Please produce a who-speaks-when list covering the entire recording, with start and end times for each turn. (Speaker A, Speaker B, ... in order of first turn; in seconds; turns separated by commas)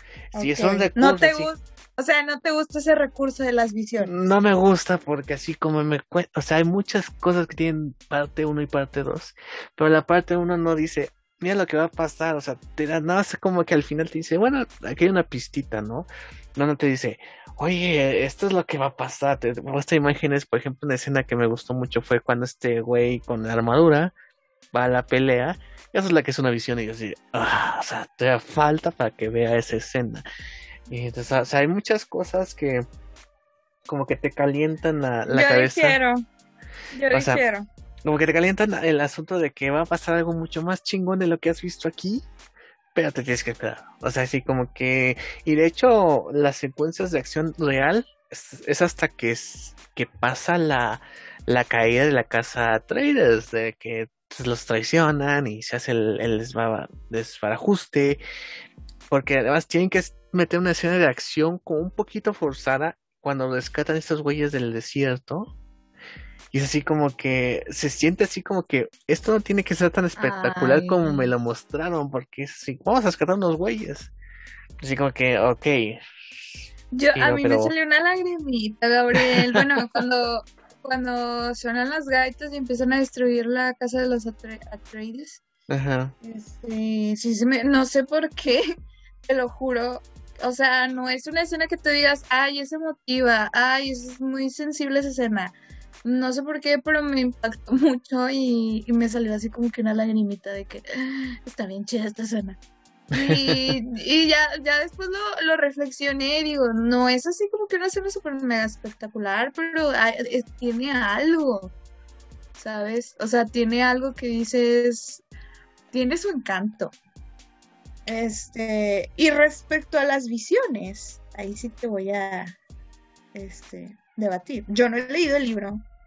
Speaker A: 0.3-1.5, Speaker B: 0.3-4.1, Speaker A: 4.0-24.1, Speaker A: 24.7-30.2, Speaker A: 30.9-32.9, Speaker A: 33.9-36.0, Speaker B: 35.3-36.2, Speaker B: 36.9-37.7, Speaker A: 37.1-37.4, Speaker A: 38.0-42.2, Speaker A: 42.9-58.2, Speaker A: 59.1-65.5, Speaker A: 66.5-74.1, Speaker B: 70.2-71.3, Speaker A: 74.8-76.0, Speaker B: 76.9-85.4, Speaker A: 77.1-77.7, Speaker A: 79.1-79.6, Speaker A: 85.7-86.1, Speaker B: 86.2-88.6, Speaker B: 89.2-95.5, Speaker B: 96.0-102.6, Speaker B: 103.1-111.7, Speaker A: 103.1-103.8, Speaker B: 112.5-115.2, Speaker B: 115.9-117.0, Speaker B: 118.0-122.5, Speaker B: 123.3-125.8